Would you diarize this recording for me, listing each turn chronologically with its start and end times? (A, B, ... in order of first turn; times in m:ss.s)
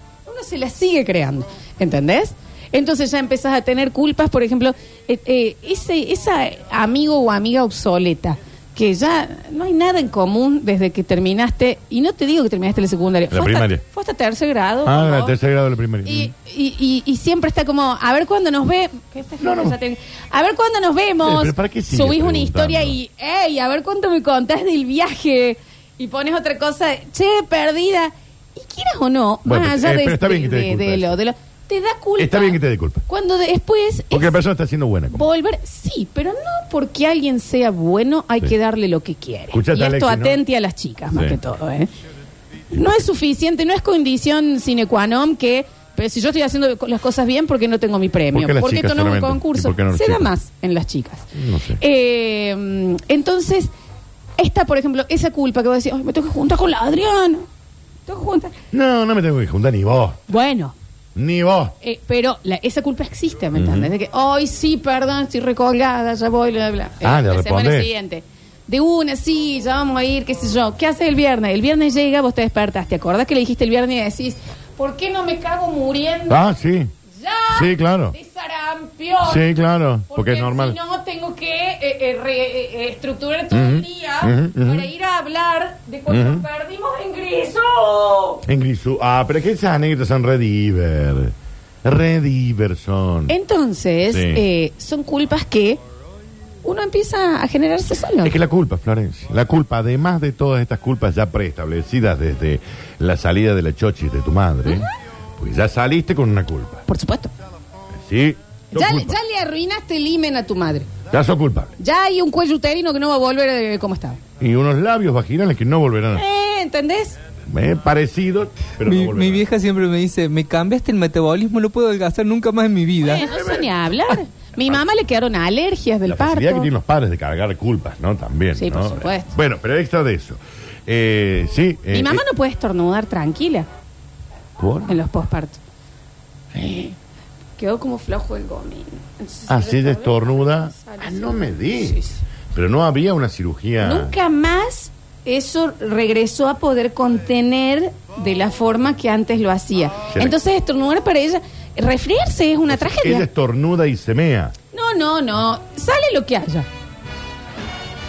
0:00.2-0:15.3 A
0:13.3-0:13.8 B
0:14.8-0:16.3 B
0:16.0-0:34.4 A
0:19.4-0:19.8 B
0:21.2-0:23.0 B
0:29.4-0:31.2 B
0:32.2-0:33.0 B
0:34.1-0:35.2 B
0:35.1-0:41.9 A
0:39.5-0:40.4 B
0:41.1-0:41.4 B
0:42.7-0:53.7 A
0:48.3-0:50.3 B
0:51.3-0:51.8 B
0:54.4-0:57.5 A
0:58.0-0:58.6 A
0:58.7-1:00.2 B
1:00.3-1:00.7 A
1:01.1-1:01.7 B
1:01.8-1:16.4 A
1:03.5-1:03.9 B
1:07.0-1:07.9 B
1:16.3-1:16.9 B
1:17.1-1:19.5 A
1:17.5-1:18.1 B
1:19.2-1:20.8 B
1:20.1-1:28.4 A
1:23.5-1:24.9 B
1:26.1-1:26.4 B
1:28.4-1:33.3 B
1:33.3-1:35.8 A
1:34.1-1:34.4 B
1:36.6-1:38.4 A
1:38.2-1:46.8 B
1:46.9-1:47.3 A
1:48.0-1:49.2 B
1:48.7-1:50.9 A
1:51.1-1:51.7 B
1:51.8-1:54.2 A
1:54.4-1:56.2 B
1:56.1-1:57.2 A
1:57.5-1:59.4 B
1:58.8-2:03.3 C
2:03.0-2:06.7 A
2:03.1-2:03.7 B
2:06.0-2:12.2 B
2:08.6-2:09.3 A
2:11.9-2:13.7 A
2:14.6-2:15.0 B
2:14.9-2:15.6 A
2:16.5-2:16.9 B
2:17.6-2:22.2 A
2:19.5-2:22.0 B
2:22.5-2:24.1 B
2:23.8-2:33.2 A
2:30.1-2:30.3 B
2:32.7-2:34.5 B
2:34.7-2:36.7 A